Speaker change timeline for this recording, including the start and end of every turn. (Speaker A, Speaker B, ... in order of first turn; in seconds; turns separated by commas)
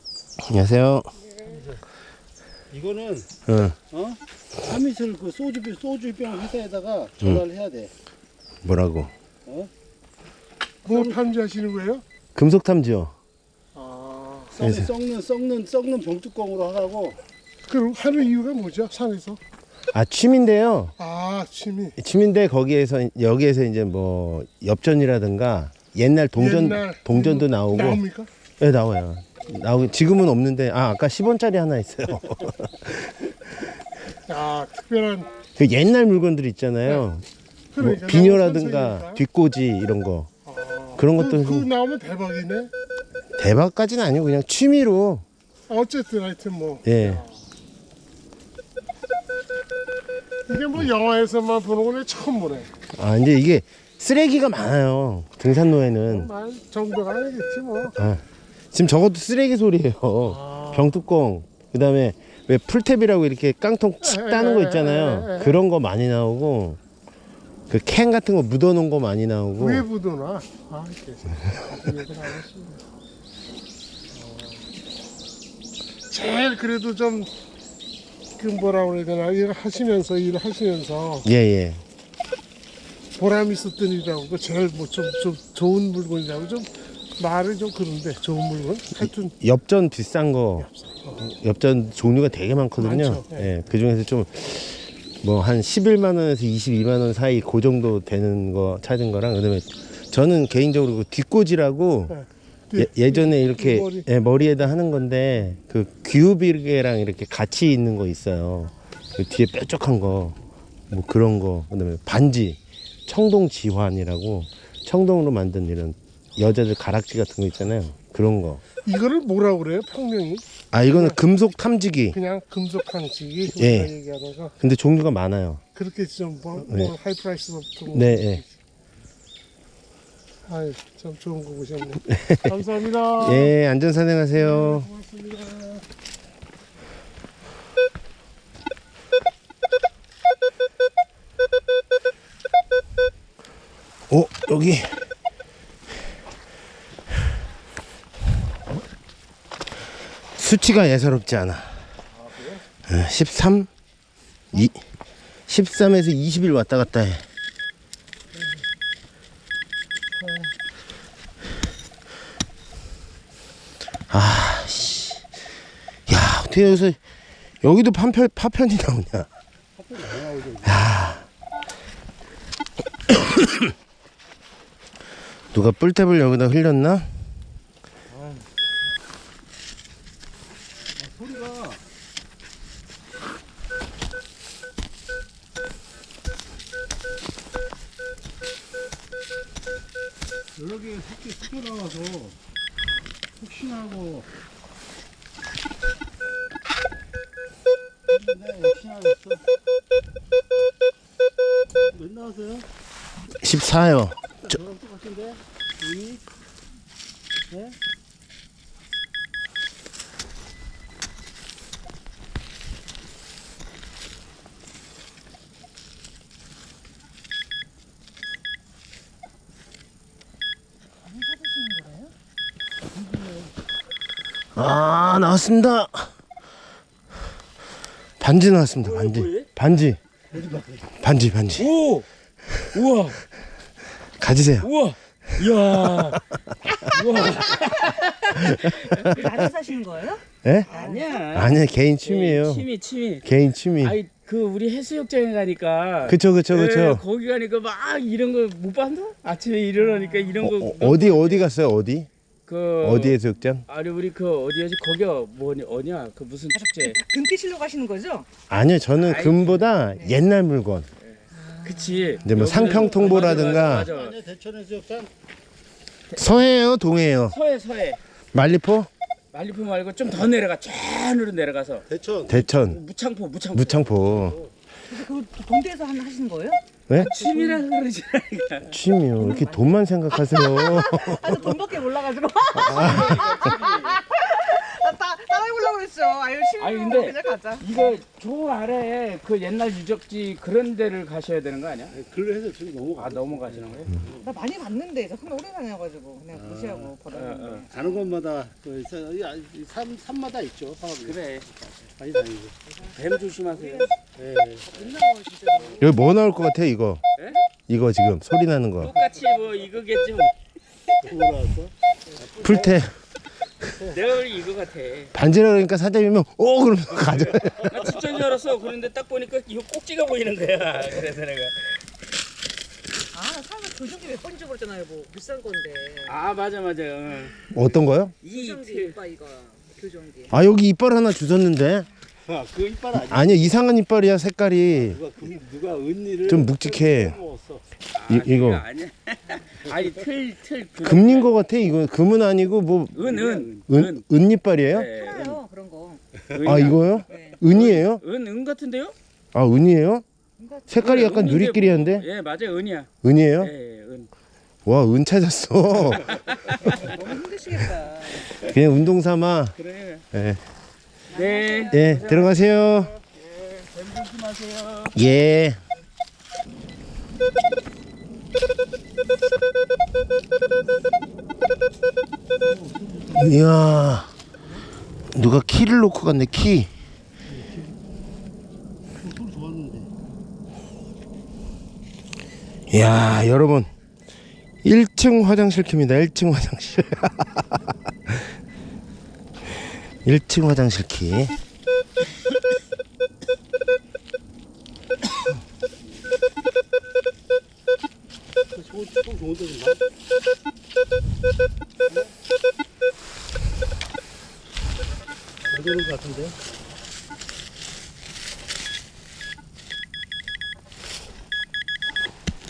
Speaker A: 0.4-1.1, Speaker B: 1.5-1.8, Speaker B: 2.7-3.3, Speaker A: 3.5-3.8, Speaker B: 3.9-7.9, Speaker A: 7.2-7.5, Speaker A: 8.6-9.1, Speaker B: 10.8-11.2, Speaker C: 10.8-12.0, Speaker A: 12.3-13.1, Speaker C: 13.7-14.5, Speaker B: 14.5-17.2, Speaker A: 14.6-14.9, Speaker C: 17.7-19.4, Speaker A: 19.9-20.9, Speaker C: 21.0-21.9, Speaker A: 22.0-28.0, Speaker C: 26.4-28.3, Speaker A: 28.6-33.3, Speaker C: 34.3-35.3, Speaker A: 35.5-37.2, Speaker C: 37.7-39.2, Speaker A: 37.8-40.3, Speaker C: 40.5-42.7, Speaker A: 41.0-41.7, Speaker A: 43.4-45.2, Speaker C: 45.7-47.3, Speaker A: 46.8-47.2, Speaker C: 50.5-52.7, Speaker A: 52.9-56.3, Speaker C: 56.1-57.9, Speaker A: 58.0-66.8, Speaker C: 60.3-60.8, Speaker C: 64.0-65.5, Speaker A: 67.7-69.8, Speaker C: 69.6-72.8, Speaker C: 74.1-74.7, Speaker C: 76.1-77.3, Speaker C: 78.4-81.2, Speaker A: 81.2-81.8, Speaker C: 83.2-89.3, Speaker A: 89.0-102.2, Speaker C: 92.8-93.4, Speaker C: 102.7-104.0, Speaker A: 102.7-110.4, Speaker A: 110.9-118.6, Speaker C: 118.8-121.2, Speaker A: 120.7-122.2, Speaker C: 122.1-124.5, Speaker A: 123.5-123.9, Speaker A: 124.6-125.6, Speaker C: 125.8-128.5, Speaker A: 126.6-127.0, Speaker A: 127.9-128.4, Speaker C: 130.5-133.5, Speaker A: 132.1-132.6, Speaker A: 133.2-134.9, Speaker C: 134.4-135.8, Speaker A: 144.1-145.1, Speaker A: 150.3-151.9, Speaker B: 152.2-152.6, Speaker A: 152.9-153.7, Speaker A: 154.5-154.8, Speaker A: 155.5-157.2, Speaker A: 164.1-165.3, Speaker A: 166.1-167.0, Speaker A: 167.6-169.3, Speaker B: 169.8-170.9, Speaker A: 170.6-171.3, Speaker A: 173.1-173.5, Speaker A: 175.5-177.1, Speaker B: 181.0-181.8, Speaker B: 190.6-192.3, Speaker B: 193.4-194.3, Speaker B: 198.1-199.4, Speaker B: 201.9-202.7, Speaker A: 203.4-204.2, Speaker B: 204.4-206.2, Speaker B: 207.5-207.8, Speaker D: 221.0-222.1, Speaker B: 222.9-223.5, Speaker A: 224.5-226.1, Speaker A: 228.2-230.0, Speaker E: 228.8-229.5, Speaker B: 230.3-230.9, Speaker A: 231.0-231.7, Speaker E: 231.6-232.1, Speaker E: 232.7-233.2, Speaker A: 234.2-234.7, Speaker E: 234.6-236.2, Speaker E: 236.8-239.4, Speaker D: 237.3-237.7, Speaker A: 238.5-239.0, Speaker D: 239.1-241.4, Speaker A: 240.4-240.7, Speaker E: 240.7-251.5, Speaker A: 241.3-242.7, Speaker A: 243.2-244.0, Speaker A: 246.1-247.0, Speaker D: 249.7-250.4, Speaker A: 250.4-252.1, Speaker E: 252.5-257.0, Speaker A: 252.8-253.6, Speaker D: 256.5-258.3, Speaker A: 258.5-260.9, Speaker E: 258.9-259.8, Speaker E: 261.0-264.2, Speaker D: 261.3-262.3, Speaker A: 262.2-263.9, Speaker B: 262.6-265.1, Speaker E: 266.1-266.4, Speaker A: 266.2-267.4, Speaker E: 267.3-268.0, Speaker A: 268.3-268.9, Speaker E: 269.3-273.9, Speaker B: 271.9-272.3, Speaker A: 272.3-272.8, Speaker A: 273.5-274.4, Speaker B: 273.9-274.5, Speaker D: 274.9-277.6, Speaker E: 277.0-278.8, Speaker A: 278.7-281.5, Speaker D: 279.1-288.0, Speaker A: 282.6-283.2, Speaker E: 282.6-283.9, Speaker E: 286.6-292.0, Speaker B: 291.9-294.3, Speaker E: 293.0-293.9, Speaker D: 294.2-298.1, Speaker B: 296.3-296.9, Speaker E: 297.1-297.6, Speaker B: 297.6-301.2, Speaker E: 301.0-301.5, Speaker B: 302.0-302.6, Speaker D: 302.8-303.9, Speaker E: 302.9-303.9, Speaker B: 304.2-304.9, Speaker D: 304.7-306.1, Speaker A: 305.8-307.0, Speaker E: 307.2-307.4, Speaker A: 307.7-309.0, Speaker E: 308.8-310.3, Speaker B: 311.0-312.8, Speaker A: 312.4-312.9, Speaker B: 313.7-314.0, Speaker E: 313.9-315.1, Speaker A: 315.1-317.9, Speaker E: 317.1-321.8, Speaker D: 323.1-326.2, Speaker E: 326.1-327.4, Speaker A: 327.5-328.1, Speaker D: 328.2-330.4, Speaker E: 328.2-329.0, Speaker A: 330.3-331.9, Speaker B: 332.2-333.6, Speaker A: 332.9-335.1, Speaker B: 334.7-337.6, Speaker A: 336.2-337.2, Speaker E: 337.9-341.3, Speaker A: 338.1-338.6, Speaker D: 339.3-339.6, Speaker A: 340.8-344.9, Speaker E: 342.9-344.0, Speaker B: 343.0-343.7, Speaker E: 344.7-345.4, Speaker D: 344.9-346.0, Speaker E: 346.3-348.9, Speaker A: 346.4-348.0, Speaker D: 347.1-347.4, Speaker A: 349.3-350.0, Speaker D: 350.4-350.8, Speaker A: 350.7-352.1, Speaker E: 350.8-354.1, Speaker A: 353.0-353.5, Speaker A: 354.6-356.1, Speaker E: 355.9-356.8, Speaker D: 356.7-358.3, Speaker A: 358.3-359.6, Speaker E: 359.6-360.1, Speaker A: 360.1-360.4, Speaker E: 361.1-365.0, Speaker D: 361.1-361.9, Speaker A: 361.7-362.9, Speaker A: 364.9-365.6, Speaker B: 372.4-373.3, Speaker A: 373.1-374.1, Speaker A: 375.1-376.7, Speaker B: 377.3-377.7, Speaker B: 379.0-379.9, Speaker A: 382.7-383.7, Speaker A: 384.6-388.3, Speaker A: 389.6-391.3, Speaker B: 398.5-399.8, Speaker B: 405.4-406.4